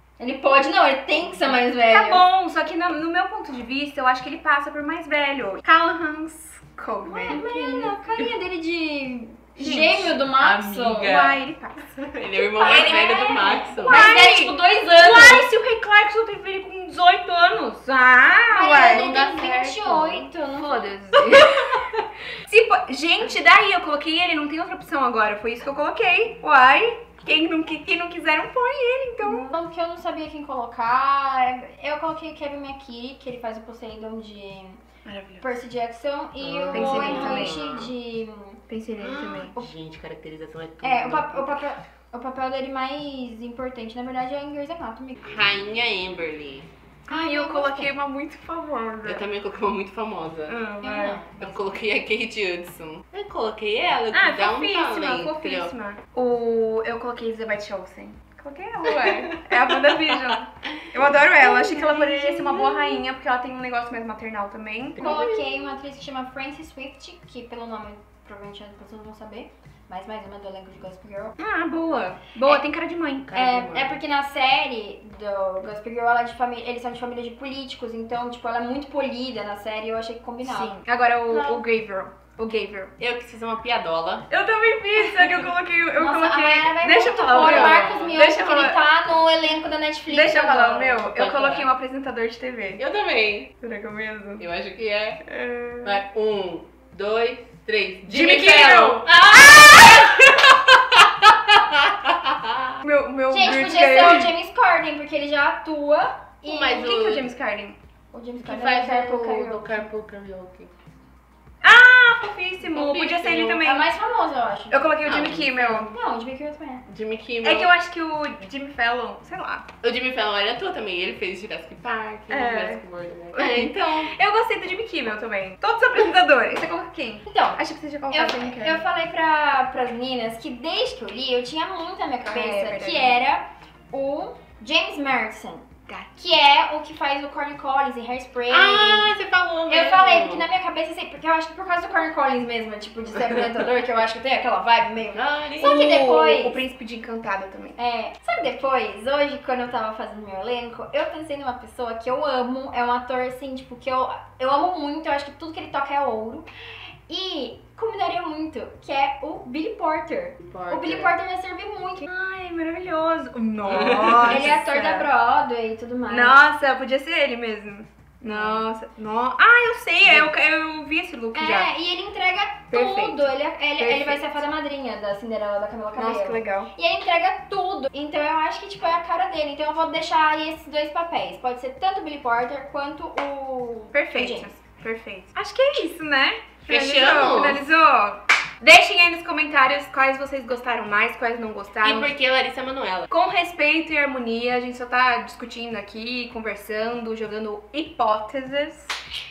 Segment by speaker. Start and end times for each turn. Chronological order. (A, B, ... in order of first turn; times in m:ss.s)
0:00.2-0:02.2 A
0:01.9-0:08.0 B
0:07.0-0:11.2 A
0:09.6-0:10.2 B
0:10.4-0:11.4 C
0:11.0-0:11.9 B
0:11.9-0:14.0 C
0:12.5-0:15.5 A
0:12.6-0:19.1 B
0:18.5-0:21.2 A
0:18.8-0:20.3 C
0:20.6-0:21.8 B
0:21.3-0:22.0 C
0:22.5-0:29.6 B
0:29.2-0:34.8 A
0:35.0-0:35.5 B
0:35.4-0:38.6 A
0:36.4-0:37.9 C
0:36.7-0:37.6 B
0:38.7-0:39.5 B
0:39.0-0:41.7 C
0:40.8-0:45.2 A
0:45.2-0:46.7 C
0:47.1-0:47.9 A
0:47.1-0:49.2 B
0:49.0-0:50.6 C
0:50.5-0:51.2 B
0:50.8-0:51.7 A
0:51.4-0:55.7 C
0:54.1-1:05.1 B
0:58.9-0:59.7 C
1:01.4-1:03.0 A
1:05.0-1:05.7 C
1:05.0-1:11.4 A
1:11.4-1:13.4 B
1:13.3-1:14.0 C
1:13.3-1:20.8 A
1:20.4-1:22.9 B
1:21.3-1:21.6 C
1:23.0-1:24.3 C
1:24.3-1:28.8 B
1:26.0-1:31.1 A
1:27.4-1:28.2 C
1:30.1-1:32.8 B
1:31.1-1:31.7 C
1:32.8-1:33.5 C
1:33.6-1:34.4 B
1:34.4-1:35.2 C
1:35.2-1:36.0 B
1:35.8-1:42.8 C
1:38.1-1:40.4 B
1:42.8-1:44.3 B
1:43.3-1:46.9 A
1:46.5-1:47.3 C
1:46.6-1:47.8 B
1:48.1-1:49.9 A
1:48.4-1:50.7 C
1:51.6-1:53.9 B
1:52.7-1:53.2 C
1:53.0-1:56.8 A
1:54.7-1:55.9 B
1:55.1-1:55.5 C
1:56.9-1:57.7 C
1:57.4-1:59.7 B
1:59.8-2:04.1 C
2:02.3-2:02.8 B
2:03.3-2:08.8 B
2:07.3-2:07.6 A
2:08.1-2:19.1 A
2:12.2-2:13.2 B
2:18.5-2:20.5 C
2:19.7-2:26.6 A
2:25.1-2:25.9 C
2:25.6-2:27.8 B
2:27.8-2:36.5 A
2:37.1-2:42.1 A
2:40.4-2:41.2 C
2:42.0-2:45.1 B
2:43.7-2:44.4 C
2:44.2-2:46.4 A
2:46.1-2:51.7 B
2:48.3-2:48.6 C
2:51.4-3:04.5 A
2:52.7-2:53.3 B
2:53.8-2:54.4 B
2:56.0-2:56.7 B
3:03.9-3:12.1 B
3:06.7-3:07.6 C
3:11.8-3:13.1 C
3:13.1-3:19.0 B